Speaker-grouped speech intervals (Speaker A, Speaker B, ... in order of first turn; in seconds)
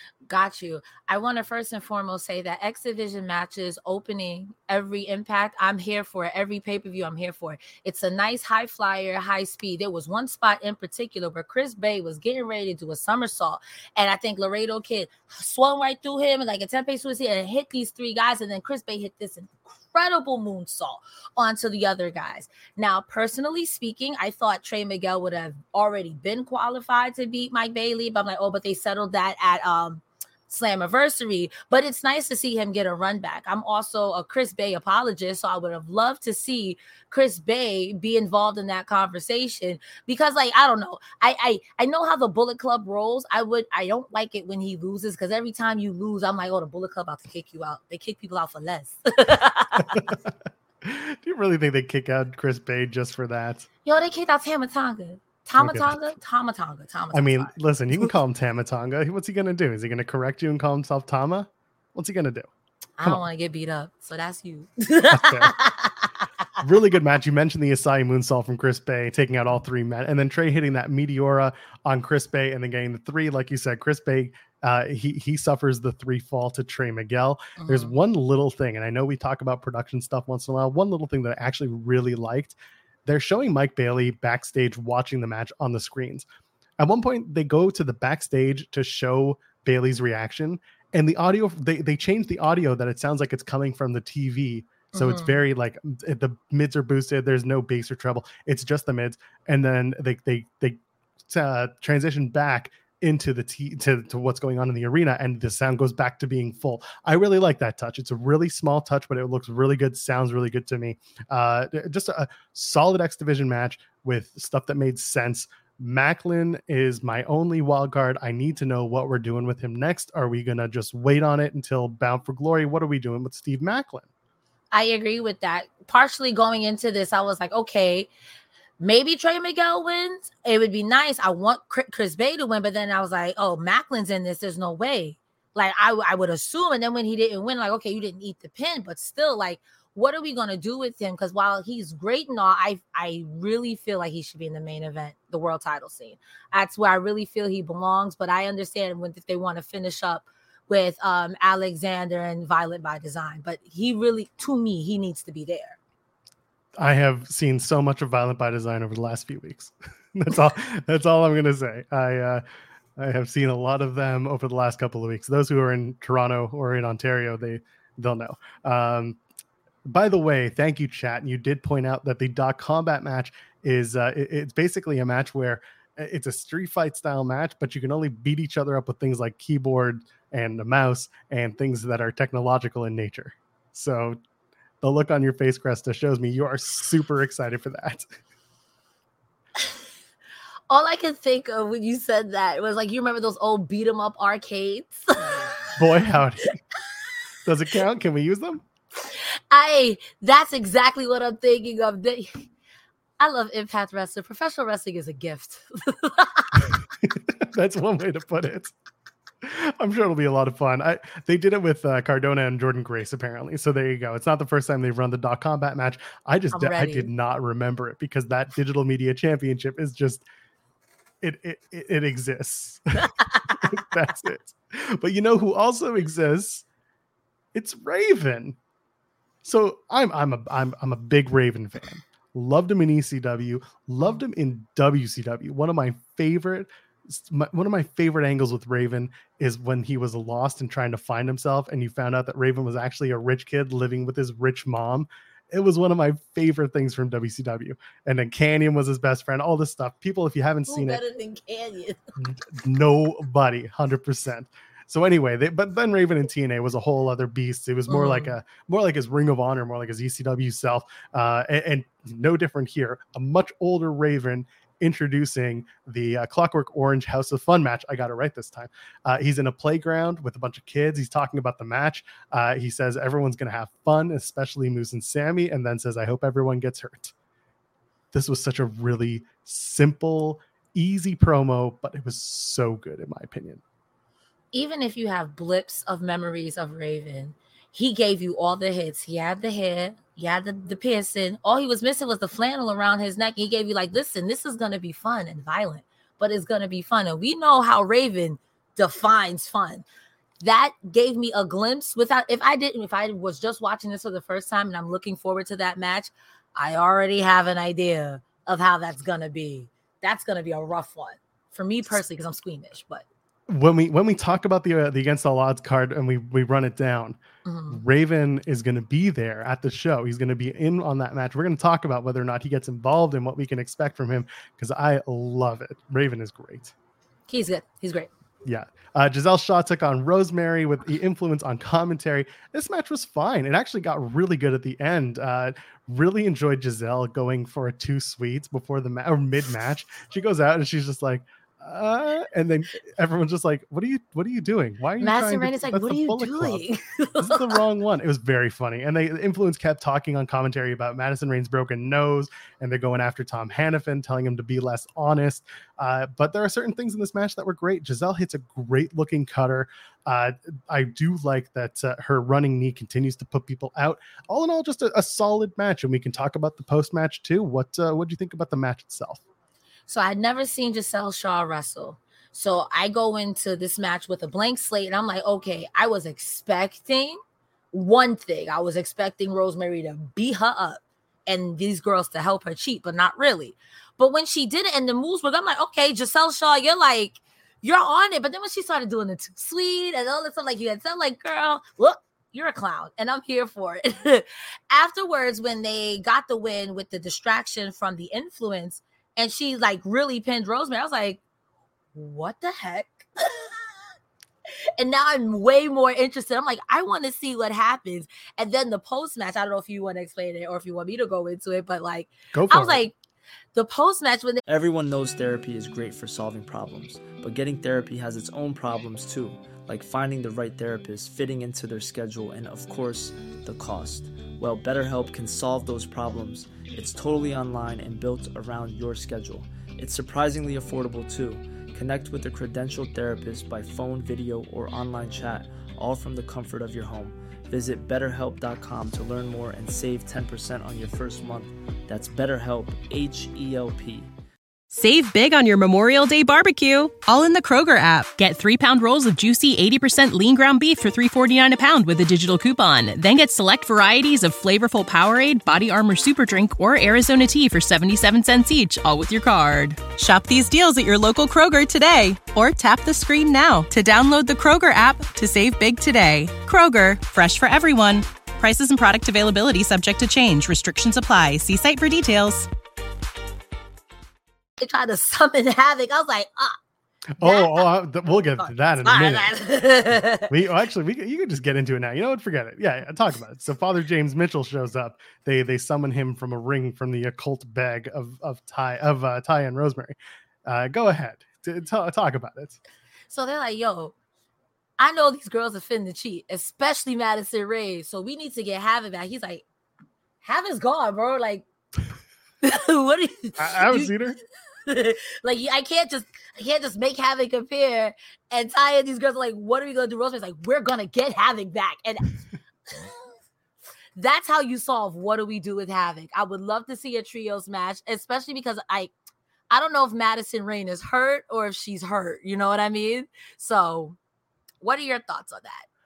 Speaker A: 0.3-50.0, 53.8-58.1, 63.0-66.1, 77.6-77.9, 94.9-95.4, 124.7-128.1, 128.8-155.8, 190.7-195.8, 199.0-202.5, 203.2-206.8, 216.5-217.1, 250.7-252.0, 257.9-258.4, 284.5-299.8, 300.4-313.0, 317.4-317.8, 327.3-328.1, 345.0-347.6, 369.9-377.2, 377.7-401.2, 401.9-403.6, 404.8-412.9, 413.5-414.4, 474.6-476.6, 477.2-477.7, 478.4-480.3, 493.1-493.9, 494.8-499.4, 500.2-501.4, 502.4-504.0, 504.6-513.0, 513.9-518.9, 519.5-524.0, 524.6-525.6
Speaker B: 49.8-53.6, 55.6-56.1, 57.1-62.5, 65.1-65.5, 66.6-86.2, 86.8-124.0, 156.8-162.4, 163.0-169.2, 169.8-184.2, 184.8-188.0, 195.8-196.5, 197.4-198.6, 207.0-208.7, 209.4-220.2, 221.2-226.6, 227.5-228.6, 229.4-251.0, 252.2-277.1, 278.1-283.6, 313.5-317.2, 317.7-326.7, 328.4-346.6, 347.2-369.2, 412.3-412.8, 477.2-479.3, 479.9-492.6, 503.4-504.2
Speaker C: 414.4-444.1
Speaker D: 444.7-472.5